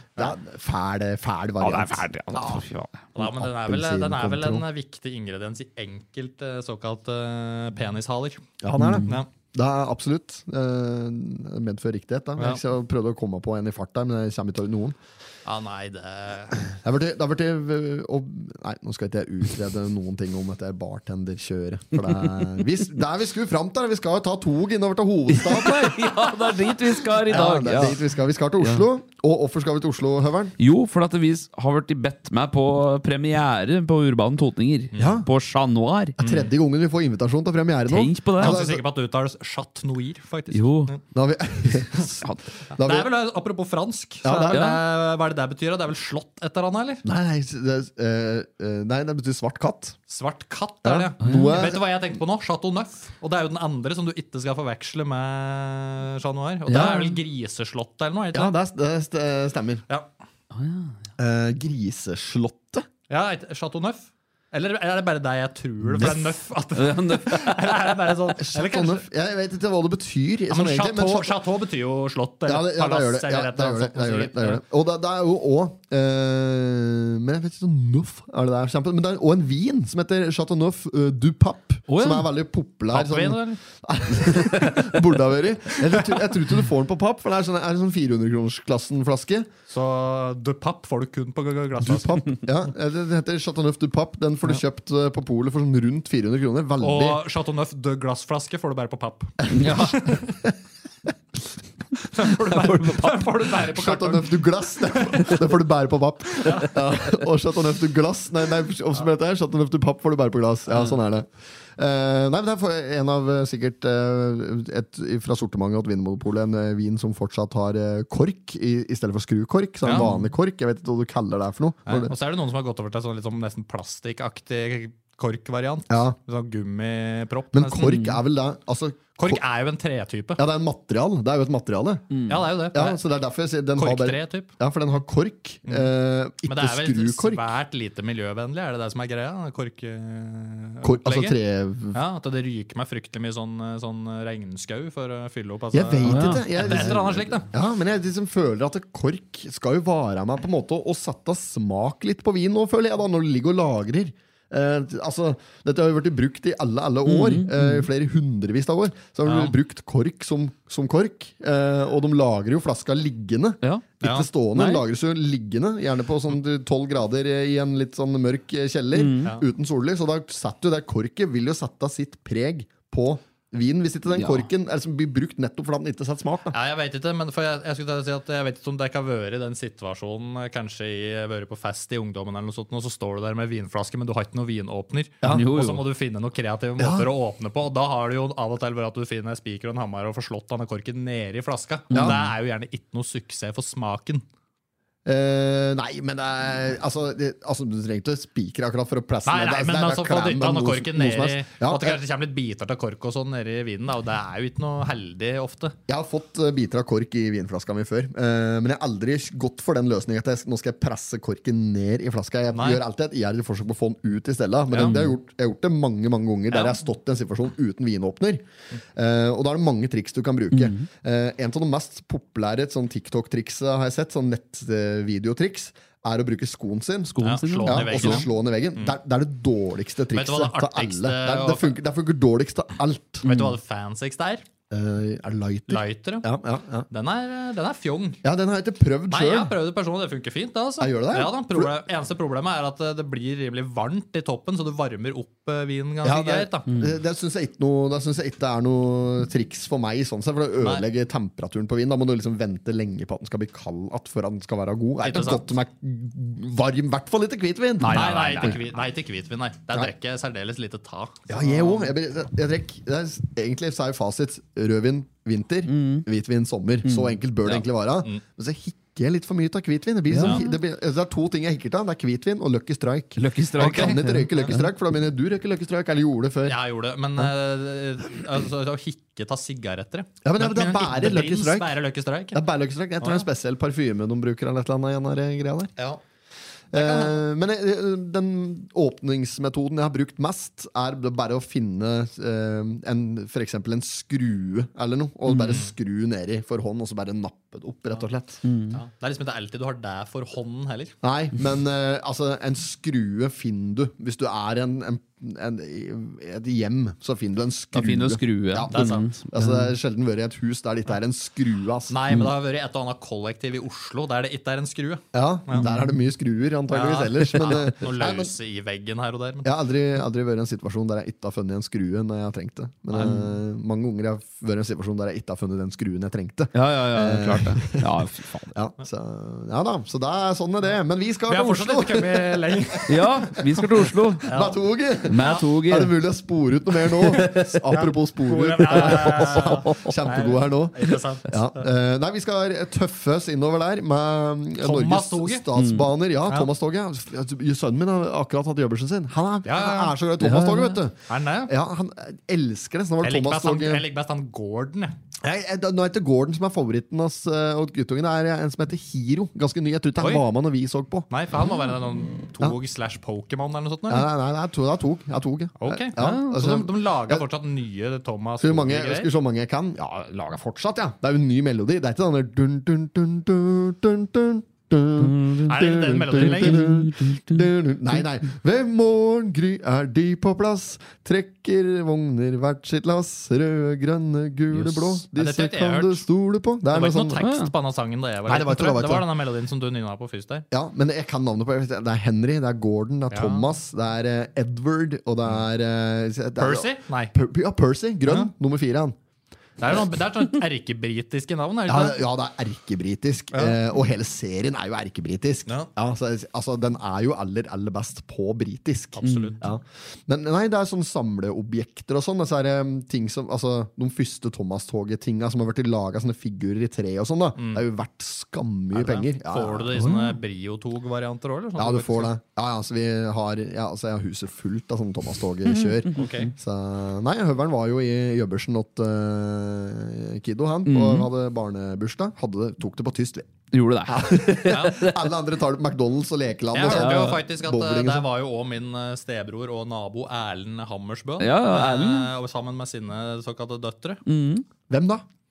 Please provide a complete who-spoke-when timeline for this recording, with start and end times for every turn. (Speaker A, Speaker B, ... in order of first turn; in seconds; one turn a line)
Speaker A: 0.2-2.6
Speaker B: 1.6-3.0
Speaker C: 3.1-8.4
Speaker A: 3.2-4.7
Speaker A: 8.6-15.0
Speaker B: 8.8-9.2
Speaker C: 15.5-16.7
Speaker A: 16.6-26.5
Speaker B: 25.3-28.1
Speaker A: 27.2-30.6
Speaker B: 28.6-28.9
Speaker B: 30.6-36.2
Speaker C: 34.9-35.2
Speaker A: 35.0-35.3
Speaker C: 36.2-36.5
Speaker A: 36.2-38.8
Speaker B: 37.9-38.6
Speaker C: 38.4-41.0
Speaker B: 40.5-40.9
Speaker A: 41.1-43.1
Speaker C: 42.7-47.0
Speaker A: 44.2-44.6
Speaker B: 44.5-44.8
Speaker A: 47.0-50.0
Speaker C: 50.1-58.5
Speaker A: 50.8-51.8
Speaker B: 51.2-51.6
Speaker B: 56.7-57.2
Speaker A: 56.7-57.0
Speaker A: 58.3-59.8
Speaker B: 60.5-60.9
Speaker A: 61.2-62.9
Speaker C: 63.1-69.0
Speaker A: 65.9-66.3
Speaker B: 66.8-67.9
Speaker A: 68.4-71.4
Speaker C: 70.5-74.6
Speaker A: 72.5-89.5
Speaker B: 81.9-82.3
Speaker C: 82.9-83.6
Speaker C: 89.7-92.3
Speaker A: 91.8-97.2
Speaker C: 96.8-100.3
Speaker A: 99.4-100.5
Speaker B: 99.5-100.1
Speaker C: 102.0-105.4
Speaker B: 102.5-103.3
Speaker A: 103.6-122.1
Speaker C: 106.4-106.8
Speaker C: 119.8-120.1
Speaker B: 119.9-120.3
Speaker C: 121.9-128.0
Speaker A: 125.9-126.2
Speaker A: 127.5-129.4
Speaker B: 127.9-128.2
Speaker C: 129.2-130.4
Speaker A: 130.4-132.2
Speaker B: 132.1-132.4
Speaker C: 132.3-133.0
Speaker A: 132.7-137.4
Speaker C: 133.8-134.5
Speaker C: 135.7-135.9
Speaker C: 136.4-141.4
Speaker A: 140.8-142.0
Speaker C: 141.9-147.5
Speaker A: 145.7-176.6
Speaker B: 146.1-146.9
Speaker B: 157.1-157.9
Speaker C: 159.2-159.6
Speaker C: 164.0-164.3
Speaker B: 164.5-164.8
Speaker B: 168.9-169.3
Speaker B: 174.1-174.5
Speaker C: 176.5-194.2
Speaker B: 185.2-185.8
Speaker A: 186.8-187.1
Speaker B: 191.9-192.3
Speaker A: 191.9-192.2
Speaker A: 195.1-202.0
Speaker C: 199.3-205.8
Speaker A: 205.9-233.3
Speaker C: 212.5-212.8
Speaker C: 214.7-215.1
Speaker B: 214.8-215.1
Speaker C: 216.5-216.8
Speaker B: 220.5-220.8
Speaker B: 227.1-228.3
Speaker C: 227.2-229.0
Speaker C: 230.1-231.8
Speaker C: 233.2-234.4
Speaker B: 233.2-233.6
Speaker A: 234.7-236.9
Speaker C: 235.7-236.3
Speaker C: 236.9-238.2
Speaker A: 238.2-239.6
Speaker C: 239.1-246.7
Speaker A: 240.8-241.7
Speaker A: 246.0-258.6
Speaker B: 246.7-247.0
Speaker C: 250.6-250.9
Speaker C: 255.0-255.5
Speaker B: 257.8-258.6
Speaker C: 257.9-261.9
Speaker A: 261.3-276.6
Speaker B: 265.7-266.1
Speaker B: 266.8-267.6
Speaker B: 270.1-270.4
Speaker C: 270.2-270.5
Speaker B: 273.2-274.7
Speaker C: 273.6-274.5
Speaker C: 276.5-282.4
Speaker A: 280.2-281.7
Speaker A: 282.3-285.7
Speaker C: 283.0-283.3
Speaker A: 286.7-298.4
Speaker C: 286.7-287.2
Speaker B: 295.3-295.6
Speaker B: 298.4-298.8
Speaker C: 298.7-300.9
Speaker A: 301.0-312.0
Speaker B: 307.7-309.7
Speaker C: 308.7-309.1
Speaker C: 311.9-315.6
Speaker A: 315.1-318.3
Speaker B: 315.6-315.9
Speaker C: 316.7-319.5
Speaker A: 319.4-327.9
Speaker C: 322.9-323.1
Speaker B: 323.0-323.2
Speaker B: 326.5-328.5
Speaker A: 328.5-332.9
Speaker C: 331.3-333.1
Speaker B: 332.9-334.3
Speaker A: 333.8-353.9
Speaker C: 334.2-334.6
Speaker B: 335.1-335.9
Speaker C: 335.2-335.4
Speaker B: 337.0-337.6
Speaker C: 337.3-341.7
Speaker B: 338.7-340.0
Speaker C: 344.6-345.4
Speaker B: 345.6-345.9
Speaker C: 349.4-349.9
Speaker B: 350.2-350.8
Speaker C: 351.1-351.5
Speaker C: 353.0-354.9
Speaker A: 355.2-361.1
Speaker C: 360.0-360.2
Speaker C: 361.1-364.1
Speaker A: 363.9-367.2
Speaker C: 365.6-369.1
Speaker B: 366.0-366.3
Speaker A: 368.4-387.2
Speaker B: 375.0-375.5
Speaker C: 375.4-376.7
Speaker B: 376.1-377.5
Speaker B: 384.5-385.0
Speaker C: 385.1-386.1
Speaker C: 386.7-390.4
Speaker B: 387.2-387.5
Speaker A: 388.3-389.1
Speaker A: 390.5-399.0
Speaker C: 393.1-393.5
Speaker C: 396.4-397.1
Speaker C: 399.6-402.0
Speaker A: 401.7-419.9
Speaker C: 408.9-409.5
Speaker B: 409.0-409.4
Speaker C: 417.4-417.6
Speaker C: 418.7-422.1
Speaker B: 419.8-420.1
Speaker A: 421.6-433.3
Speaker B: 425.5-426.1
Speaker C: 426.0-426.3
Speaker B: 430.7-431.1
Speaker B: 433.5-435.0
Speaker A: 433.9-438.1
Speaker C: 434.5-434.8
Speaker C: 436.5-444.0
Speaker B: 436.7-437.2
Speaker B: 441.2-442.1
Speaker B: 444.1-444.4
Speaker A: 444.7-445.1